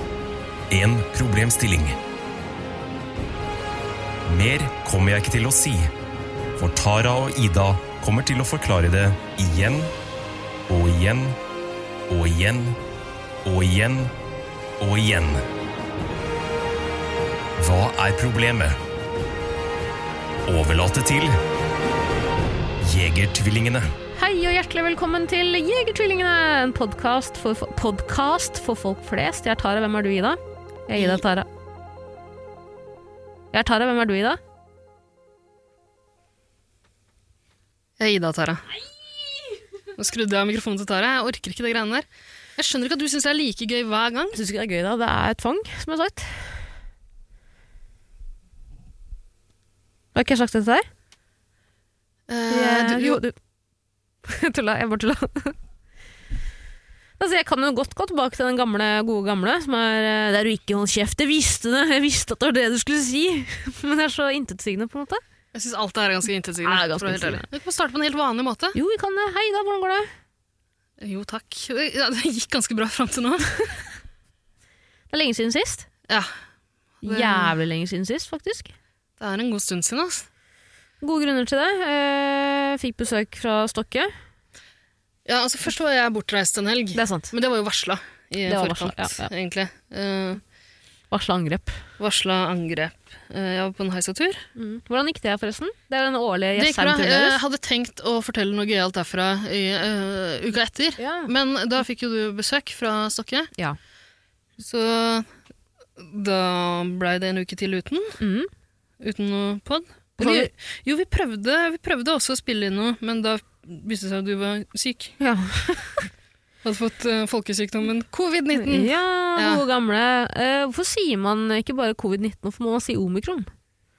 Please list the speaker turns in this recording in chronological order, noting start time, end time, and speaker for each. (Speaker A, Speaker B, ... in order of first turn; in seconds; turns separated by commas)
Speaker A: 0.7-2.0, Speaker A: 4.3-5.9, Speaker A: 6.6-9.9, Speaker A: 10.7-11.4, Speaker A: 12.1-12.8, Speaker A: 13.4-14.1, Speaker A: 14.8-15.4, Speaker A: 17.6-18.8, Speaker A: 20.4-21.4, Speaker A: 22.8-23.9, Speaker B: 24.1-31.5, Speaker C: 31.0-31.2, Speaker B: 33.5-34.4, Speaker C: 38.0-38.6, Speaker C: 40.0-44.4, Speaker B: 44.3-46.6, Speaker B: 50.1-50.9, Speaker C: 52.3-53.2, Speaker B: 52.5-53.3, Speaker B: 54.2-55.5, Speaker B: 57.2-65.2, Speaker C: 65.5-68.8, Speaker B: 66.6-67.5, Speaker B: 68.7-70.1, Speaker C: 71.0-73.5, Speaker B: 75.1-75.9, Speaker C: 77.0-77.5, Speaker B: 77.0-78.7, Speaker C: 79.2-80.2, Speaker B: 81.0-84.1, Speaker C: 85.2-90.4, Speaker B: 86.9-87.3, Speaker B: 88.5-89.3, Speaker B: 91.1-91.8, Speaker C: 92.0-94.4, Speaker B: 94.5-97.4, Speaker C: 96.5-103.5, Speaker B: 101.0-101.3, Speaker C: 104.6-105.3, Speaker C: 106.0-108.2, Speaker B: 108.2-108.5, Speaker C: 109.0-115.2, Speaker B: 110.2-110.5, Speaker B: 115.2-116.1, Speaker C: 116.6-119.6, Speaker B: 118.5-123.5